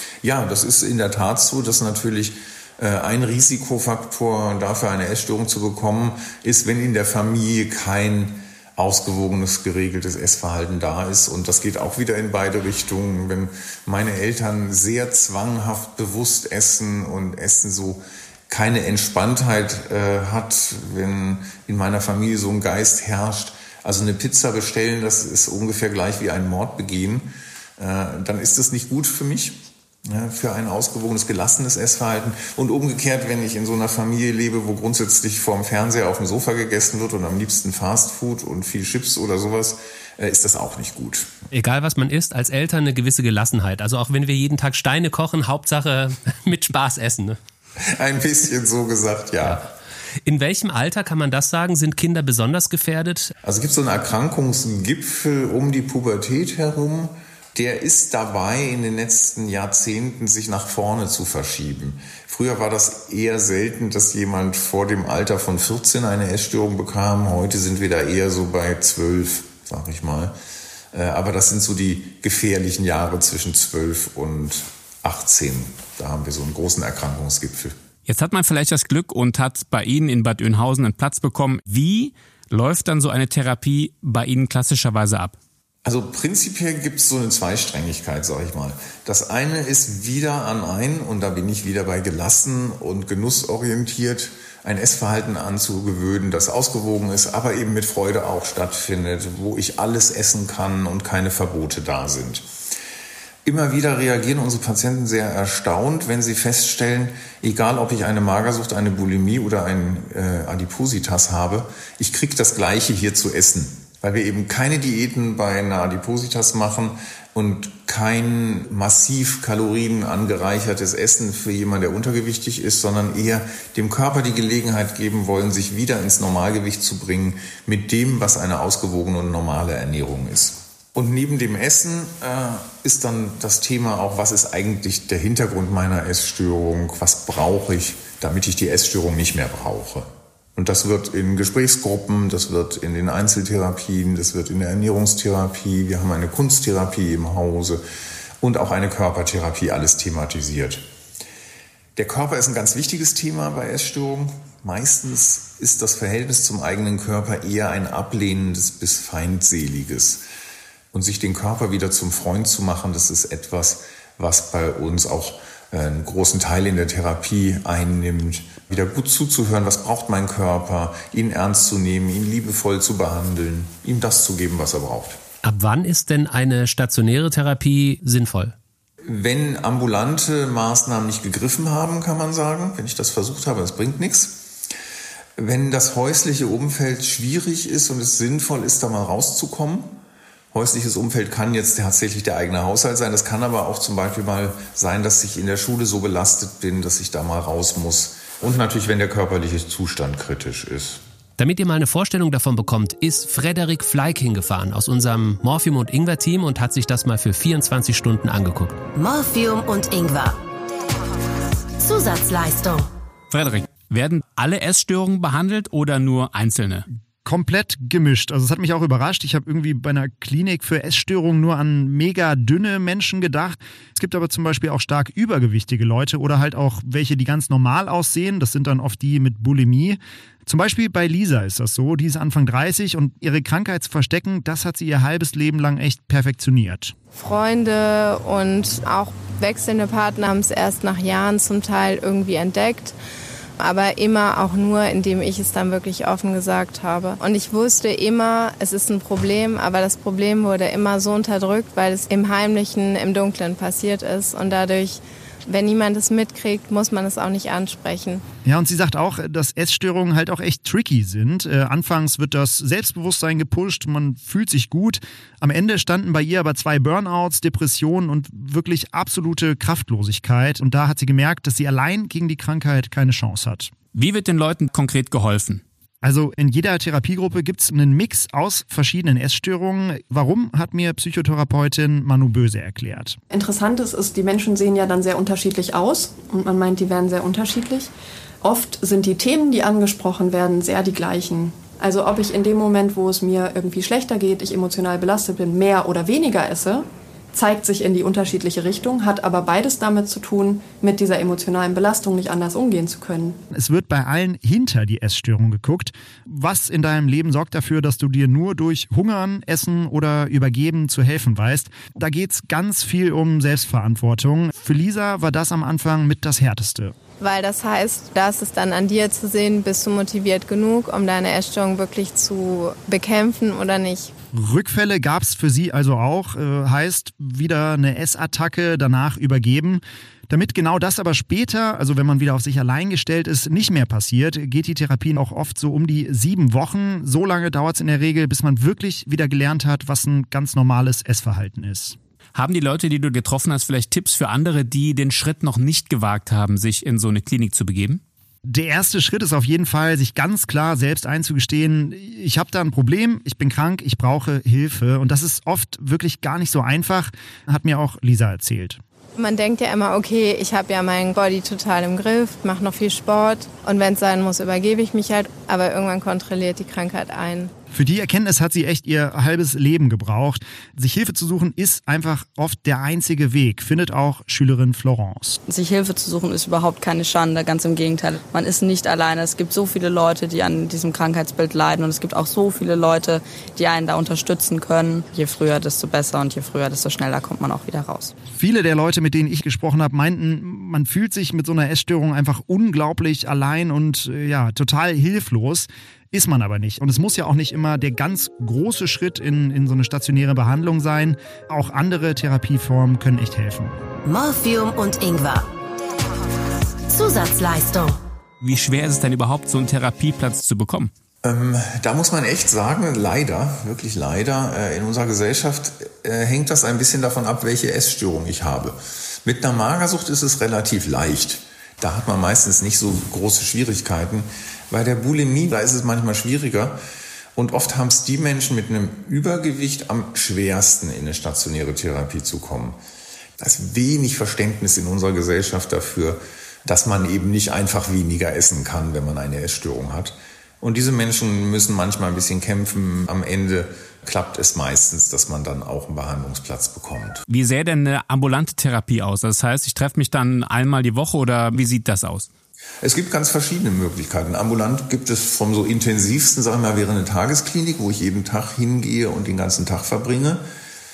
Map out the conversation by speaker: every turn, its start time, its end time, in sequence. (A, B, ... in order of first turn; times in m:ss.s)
0:00.2-0:41.3 A
0:41.5-0:47.4 B
0:47.8-0:49.7 A
0:50.2-0:53.3 B
0:53.4-1:10.3 A
1:10.9-1:17.8 A
1:18.1-1:25.4 C
1:25.8-1:42.4 A
1:43.4-2:27.8 A
2:28.4-2:30.8 A
2:32.0-2:40.2 A
2:40.9-2:55.2 A
2:55.4-2:58.5 B
2:59.1-3:04.5 A
3:05.4-3:10.0 A
3:10.5-3:21.0 A
3:21.4-3:28.8 B
3:28.9-3:30.4 D
3:31.8-3:32.9 D
3:33.3-3:36.9 C
3:37.2-3:57.0 E
3:57.1-4:02.9 F
4:03.6-4:18.2 F
4:18.4-4:33.7 E
4:33.9-4:35.6 C
4:36.0-4:43.2 E
4:43.3-5:03.4 G
5:03.5-5:16.9 E
5:17.2-5:24.1 F
5:24.3-5:42.0 E
5:42.4-5:48.0 C
5:48.4-5:58.8 E
5:59.2-6:07.5 F
6:07.7-6:15.4 E
6:15.5-6:28.1 H
6:28.4-6:43.8 E
6:44.0-6:45.5 D
6:46.9-6:48.0 D
6:48.4-6:50.9 C
6:51.2-7:06.8 A
7:07.4-7:12.8 A
7:13.4-7:27.2 A
7:27.3-7:32.3 C
7:32.8-7:40.4 A